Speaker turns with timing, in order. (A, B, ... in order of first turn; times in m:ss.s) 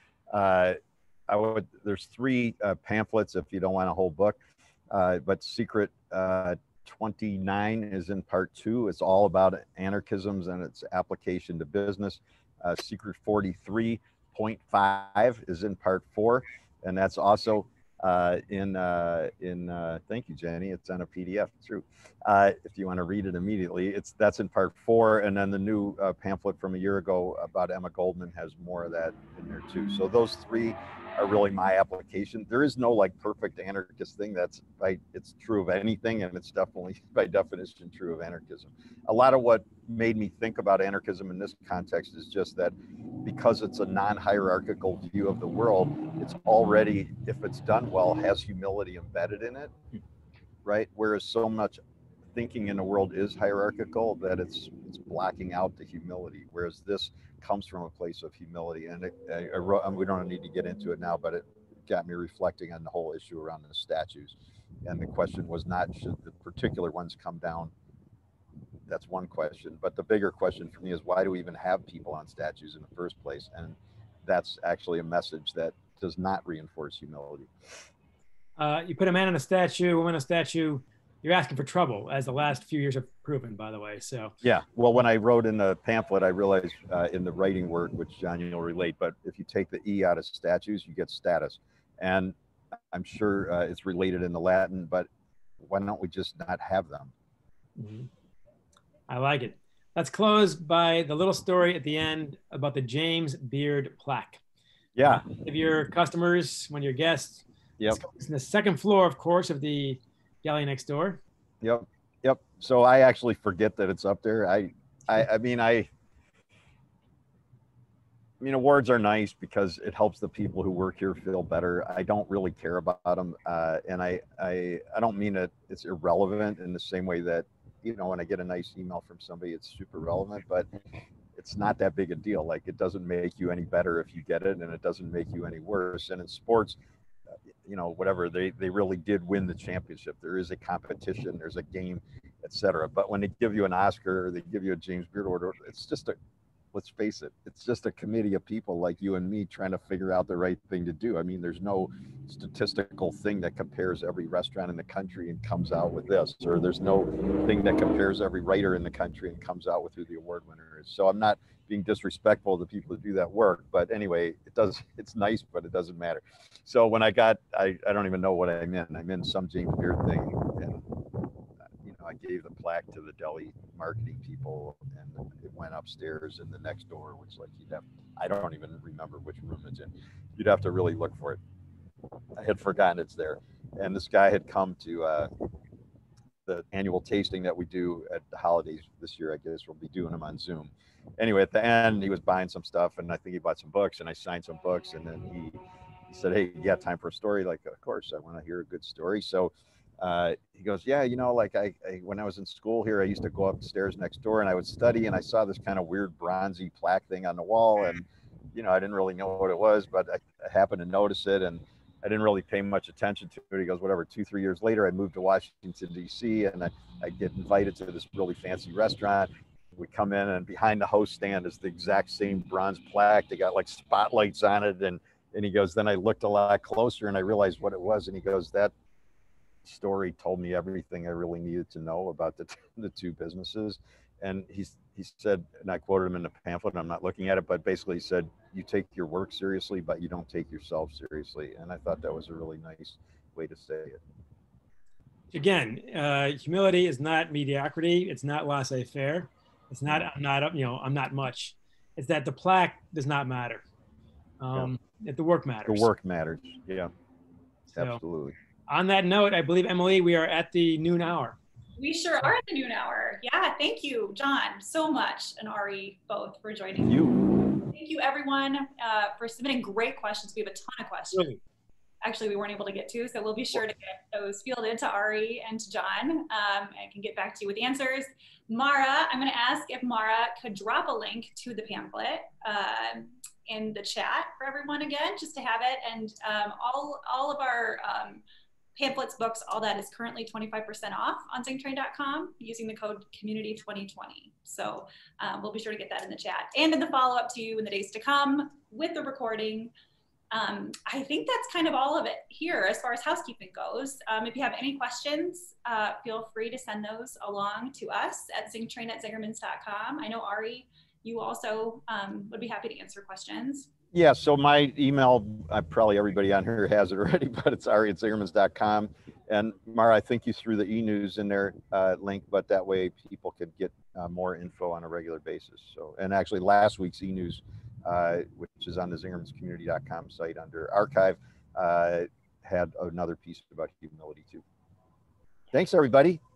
0:00.3-0:00.8 A
0:01.3-0:49.7 A
0:50.6-0:51.8 A
0:52.3-1:07.7 A
1:08.9-1:17.5 A
1:18.6-1:24.3 B
1:24.4-1:32.3 A
1:32.9-1:35.1 A
1:35.6-1:37.1 A
1:37.8-1:38.1 B
1:39.1-1:44.4 B
1:45.0-1:45.2 A
1:45.0-1:51.2 B
1:51.6-1:55.9 A
1:58.4-2:10.7 A
2:11.3-2:16.8 A
2:17.6-2:26.1 A
2:26.7-2:50.8 A
2:51.8-3:01.4 A
3:02.4-3:05.3 A
3:06.4-3:15.6 A
3:16.1-3:48.7 A
3:49.6-4:04.0 A
4:05.3-4:13.6 B
4:14.4-4:15.9 B
4:15.6-4:16.9 A
4:17.7-4:18.0 B
4:17.7-4:18.3 A
4:18.7-4:21.4 B
4:21.8-4:31.3 C
4:26.8-4:27.3 A
4:31.1-4:31.4 B
4:32.0-4:48.2 C
4:48.8-4:59.7 C
5:00.3-5:13.7 C
5:13.9-5:34.4 A
5:35.5-5:36.2 A